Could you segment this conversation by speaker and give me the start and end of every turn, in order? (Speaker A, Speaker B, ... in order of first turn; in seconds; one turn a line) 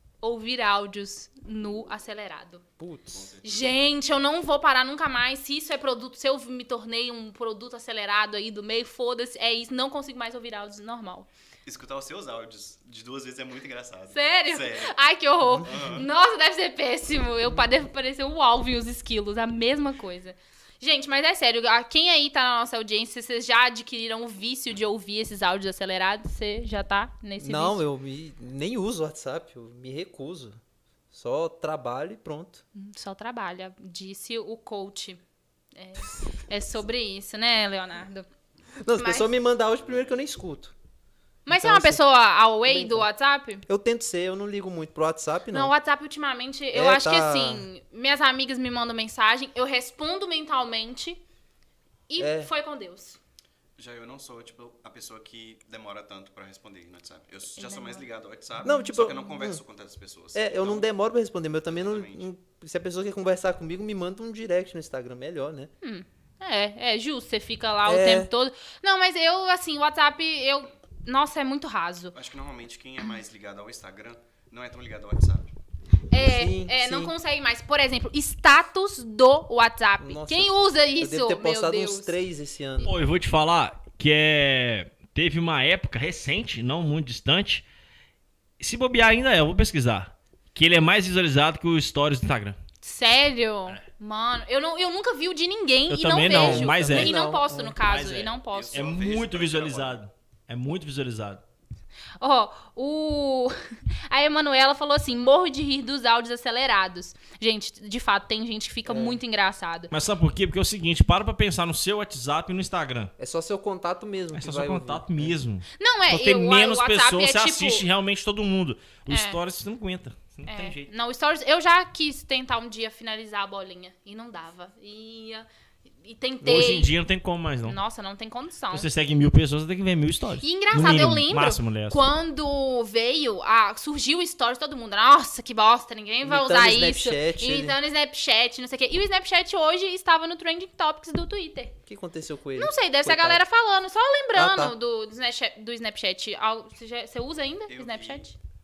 Speaker A: 0.2-2.6
Speaker B: 2.8-3.2
Speaker C: 3.1-3.7
Speaker A: 3.4-11.3
Speaker C: 11.7-14.9
Speaker A: 14.1-27.8
Speaker C: 15.6-16.1
Speaker B: 27.4-30.6
Speaker B: 31.1-32.6
Speaker A: 32.8-35.2
Speaker A: 35.7-38.3
Speaker B: 38.8-40.7
Speaker A: 39.0-39.3
Speaker A: 41.5-43.6
Speaker B: 41.5-42.0
Speaker B: 42.7-43.1
Speaker B: 43.7-45.7
Speaker A: 45.5-51.2
Speaker B: 46.7-47.7
Speaker A: 52.1-53.2
Speaker B: 52.2-52.5
Speaker C: 53.8-60.9
Speaker A: 57.6-58.0
Speaker A: 58.6-58.9
Speaker B: 58.6-59.6
Speaker B: 60.4-65.7
Speaker C: 61.7-62.3
Speaker A: 65.8-72.1
Speaker B: 67.9-68.3
Speaker C: 72.1-75.5
Speaker A: 76.1-82.2
Speaker B: 76.1-77.1
Speaker B: 80.0-82.9
Speaker D: 82.8-87.7
Speaker D: 88.6-92.6
Speaker A: 92.8-98.9
Speaker D: 95.9-97.2
Speaker B: 96.2-97.8
Speaker D: 97.8-101.4
Speaker C: 98.5-100.0
Speaker A: 102.2-109.9
Speaker B: 108.8-109.2
Speaker D: 109.9-113.1
Speaker B: 113.2-115.4
Speaker D: 114.4-120.9
Speaker A: 115.8-117.8
Speaker A: 119.1-119.4
Speaker A: 120.5-125.5
Speaker A: 126.0-126.9
Speaker D: 126.4-127.8
Speaker A: 127.7-128.9
Speaker D: 128.7-132.0
Speaker A: 130.4-141.8
Speaker B: 136.2-137.8
Speaker B: 141.9-143.4
Speaker A: 142.6-148.3
Speaker B: 144.3-144.7
Speaker C: 147.7-148.3